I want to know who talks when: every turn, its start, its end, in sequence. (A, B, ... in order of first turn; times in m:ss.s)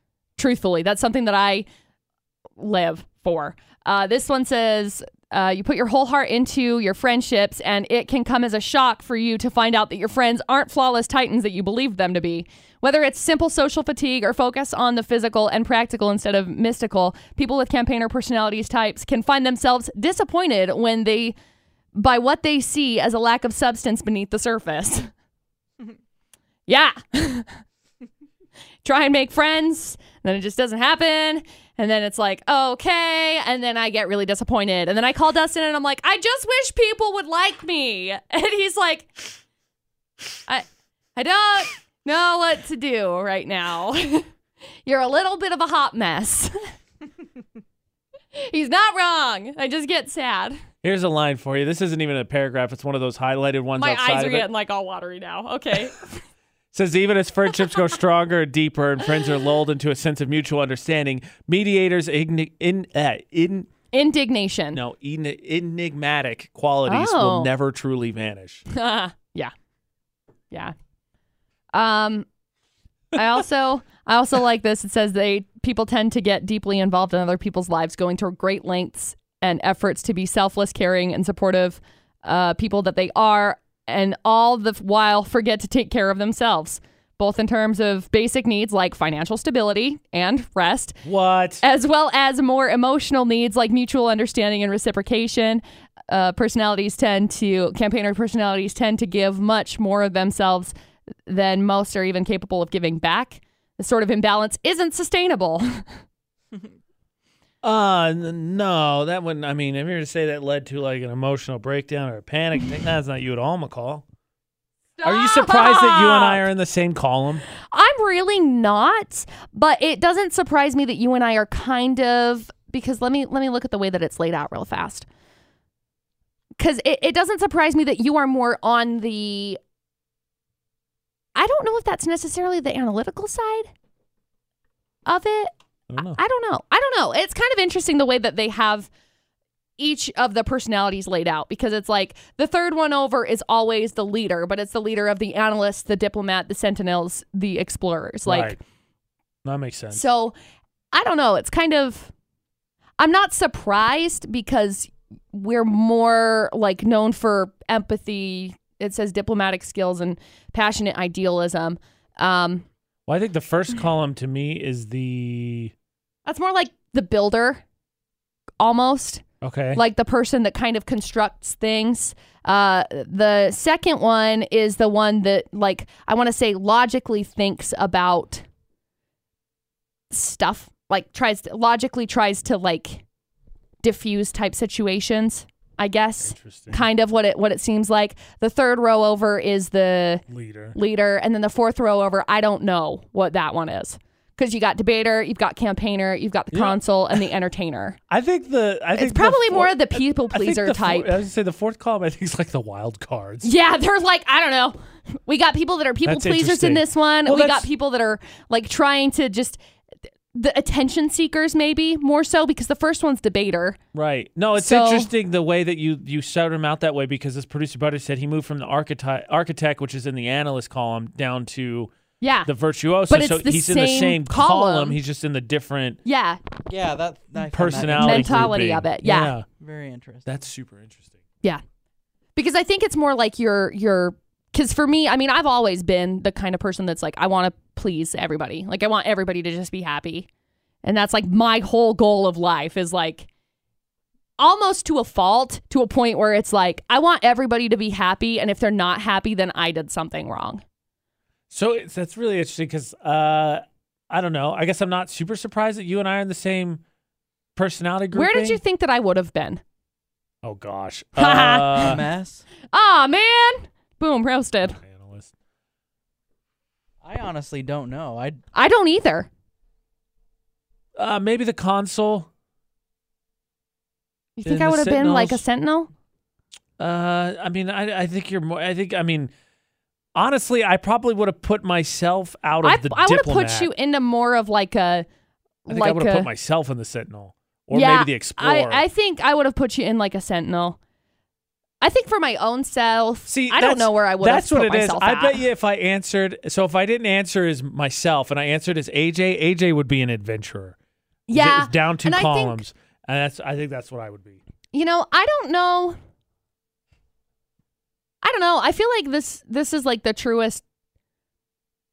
0:00.4-0:01.7 A
0:02.6-0:21.4 A
0:21.9-0:25.1 A
0:26.7-0:27.6 A
0:28.8-0:39.1 A
0:40.5-0:44.3 A
0:44.9-0:46.6 A
0:48.4-0:50.6 A
0:50.8-0:54.5 B
0:53.8-0:56.2 A
0:56.7-1:03.7 B
1:03.9-1:04.8 A
1:04.7-1:08.6 B
1:06.9-1:07.5 A
1:08.7-1:09.5 A
1:11.7-1:12.3 A
1:13.1-1:31.0 A
1:31.0-1:31.6 B
1:31.6-1:40.7 A
1:41.3-1:45.9 A
1:47.6-1:54.0 B
1:55.0-1:56.4 A
1:55.0-1:57.4 B
1:57.5-2:05.1 A
2:06.6-2:09.6 A
2:11.4-2:13.7 A
2:15.1-2:18.9 A
2:15.9-2:16.2 B
2:19.8-2:28.6 A
2:28.3-2:28.6 B
2:29.4-2:30.0 B
2:29.9-2:30.3 A
2:30.9-2:32.1 A
2:33.0-2:42.6 A
2:43.1-2:45.7 B
2:46.2-2:47.6 A
2:48.6-2:58.5 A
2:49.4-2:49.8 B
3:00.1-3:03.0 A
3:03.8-3:18.0 A
3:06.3-3:06.9 B
3:10.3-3:10.8 B
3:16.5-3:17.2 B
3:18.1-3:23.5 B
3:18.9-3:21.2 A
3:23.4-3:29.6 A
3:26.0-3:27.7 B
3:30.3-3:33.8 A
3:33.9-3:41.9 B
3:34.6-3:35.1 A
3:42.2-3:42.5 A
3:42.5-3:46.0 B
3:43.1-3:45.0 A
3:46.0-3:46.4 A
3:46.7-3:48.6 C
3:47.5-3:49.5 B
3:47.8-3:49.3 A
3:49.6-3:50.4 C
3:50.3-3:51.2 B
3:52.4-4:00.3 A
4:00.8-4:03.3 A
4:04.4-4:10.6 A
4:11.5-4:16.8 B
4:17.6-4:18.6 B
4:18.1-4:19.6 A
4:20.4-4:22.0 B
4:21.2-4:22.0 A
4:21.8-4:22.5 C
4:22.7-4:24.8 A
4:24.6-4:25.3 B
4:27.0-4:28.4 C
4:28.5-4:29.3 A
4:31.0-4:32.3 B
4:34.4-4:35.9 A
4:34.5-4:35.4 B
4:36.8-4:39.3 B
4:40.2-4:43.7 B
4:42.6-4:45.1 A
4:45.6-4:46.3 A
4:45.7-4:48.8 B
4:47.7-4:50.8 A
4:51.8-4:55.4 A
4:53.3-5:00.8 B
5:01.3-5:02.6 A
5:01.3-5:04.4 B
5:04.7-5:06.0 A
5:08.2-5:10.6 A